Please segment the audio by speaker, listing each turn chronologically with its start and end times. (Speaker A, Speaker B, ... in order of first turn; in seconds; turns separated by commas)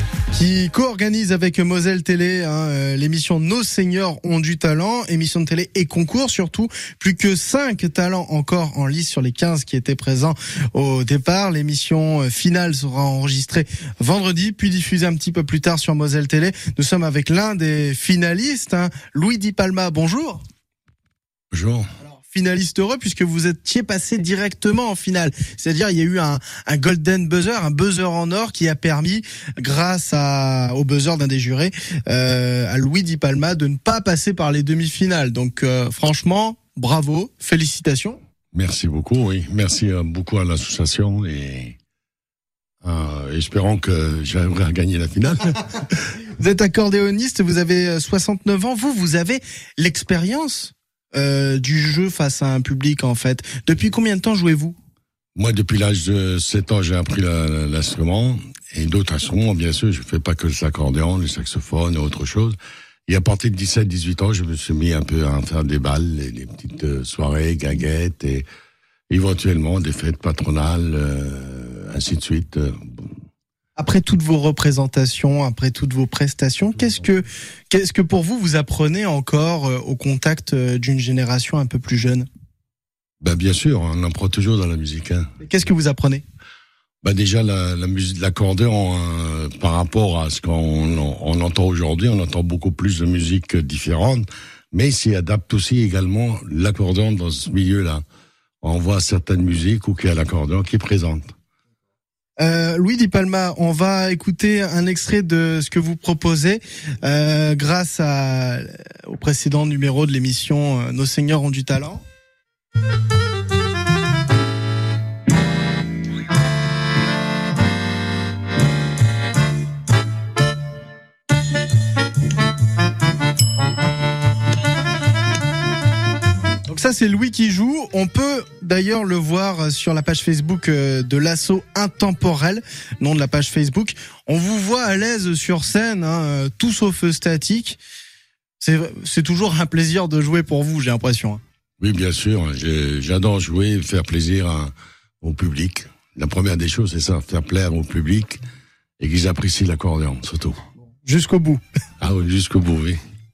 Speaker A: 0.3-20.4, Speaker B: 21.5-21.9, Speaker A: 22.0-38.2, Speaker B: 38.5-41.8, Speaker B: 42.8-45.6, Speaker A: 46.4-54.8, Speaker B: 55.4-62.6, Speaker B: 63.1-68.5, Speaker B: 69.1-73.1, Speaker A: 73.8-82.3, Speaker B: 83.2-85.3, Speaker A: 85.4-86.2, Speaker B: 87.0-98.0, Speaker B: 98.6-101.3, Speaker A: 102.4-112.0, Speaker A: 126.7-137.8, Speaker A: 138.6-141.4, Speaker B: 141.8-148.4, Speaker B: 149.0-150.6, Speaker A: 151.0-151.6, Speaker B: 152.0-153.0